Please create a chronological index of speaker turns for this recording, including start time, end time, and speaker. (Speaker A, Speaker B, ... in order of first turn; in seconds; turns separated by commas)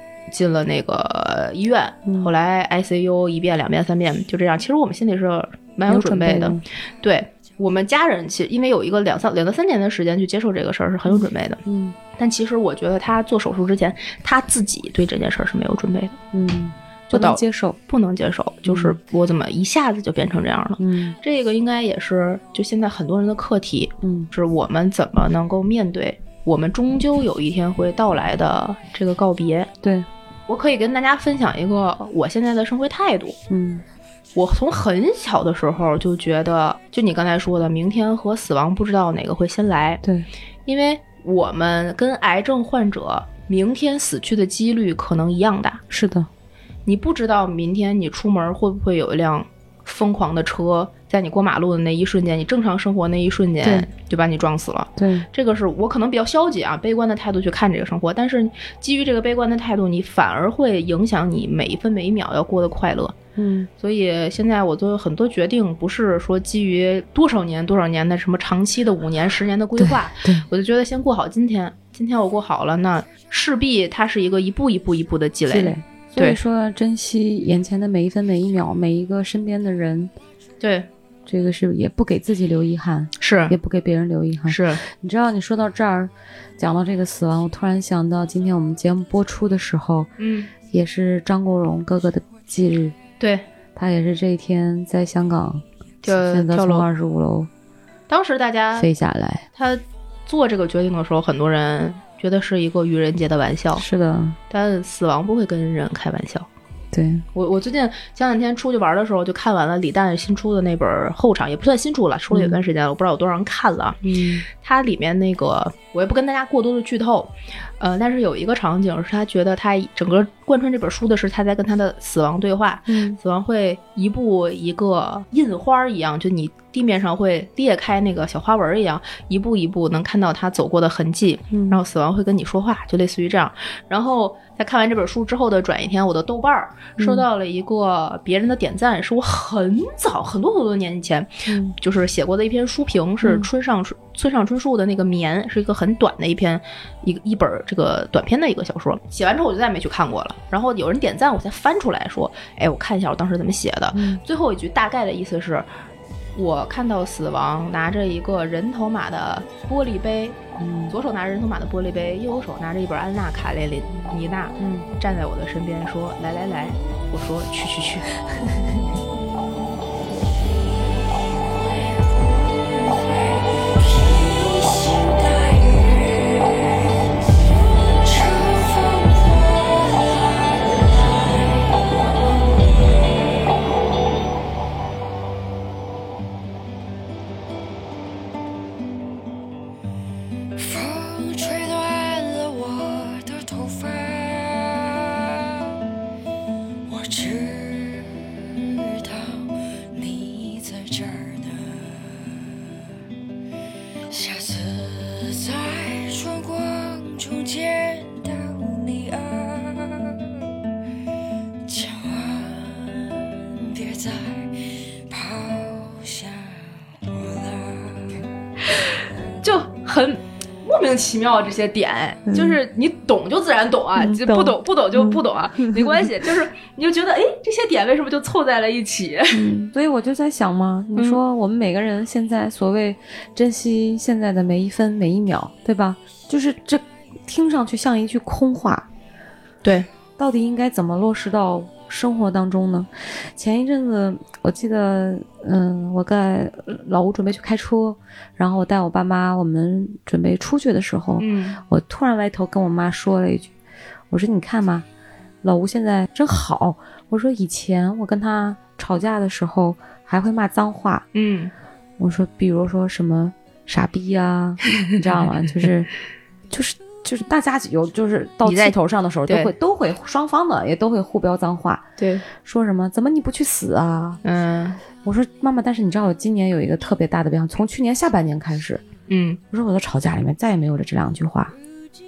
Speaker A: 0.3-11.6, Speaker B: 2.1-2.3, Speaker B: 5.9-6.6, Speaker B: 11.1-12.0, Speaker A: 12.1-16.2, Speaker B: 16.3-17.8, Speaker A: 17.1-29.7, Speaker B: 18.7-19.0, Speaker B: 20.8-21.2, Speaker B: 24.0-24.3, Speaker B: 29.8-30.1, Speaker A: 30.5-33.4, Speaker B: 33.5-33.8, Speaker A: 34.4-40.0, Speaker A: 40.7-45.8, Speaker B: 45.9-46.3, Speaker A: 46.9-63.1, Speaker B: 53.6-53.9, Speaker B: 55.0-55.3, Speaker B: 63.4-63.7, Speaker A: 63.8-76.4, Speaker B: 69.8-70.5, Speaker B: 75.5-80.1, Speaker A: 80.6-80.9, Speaker B: 81.3-90.1, Speaker A: 83.2-83.6, Speaker A: 84.5-84.8, Speaker A: 90.2-90.5, Speaker B: 90.7-93.0, Speaker A: 93.2-93.5, Speaker B: 93.8-97.5, Speaker A: 96.0-96.9, Speaker A: 98.1-98.9, Speaker B: 98.8-99.5, Speaker A: 99.5-103.8, Speaker B: 103.8-104.4, Speaker A: 104.5-106.5, Speaker B: 106.9-107.2, Speaker A: 107.3-114.0, Speaker B: 112.3-112.6, Speaker B: 114.0-114.5, Speaker A: 114.5-155.7, Speaker B: 122.9-123.2, Speaker B: 131.5-131.8, Speaker B: 137.0-137.3, Speaker B: 141.5-141.7, Speaker B: 143.2-143.5, Speaker B: 153.9-154.2, Speaker A: 156.3-160.4, Speaker B: 160.6-160.9, Speaker A: 160.9-168.1, Speaker B: 164.6-164.9, Speaker C: 171.3-177.0, Speaker C: 177.5-183.6, Speaker C: 190.6-195.5, Speaker C: 196.9-202.5, Speaker C: 204.1-210.2, Speaker C: 211.7-218.2, Speaker A: 219.4-229.5, Speaker B: 222.3-222.6, Speaker B: 224.0-226.1, Speaker B: 229.3-238.9, Speaker B: 240.2-253.5, Speaker A: 251.2-251.6, Speaker B: 254.1-254.8, Speaker B: 255.4-261.1, Speaker A: 261.1-261.5, Speaker B: 262.0-265.9, Speaker B: 266.5-274.2, Speaker A: 268.4-269.5, Speaker A: 272.0-272.2, Speaker A: 274.2-274.8, Speaker B: 275.0-278.8, Speaker A: 279.1-279.4, Speaker B: 279.5-281.6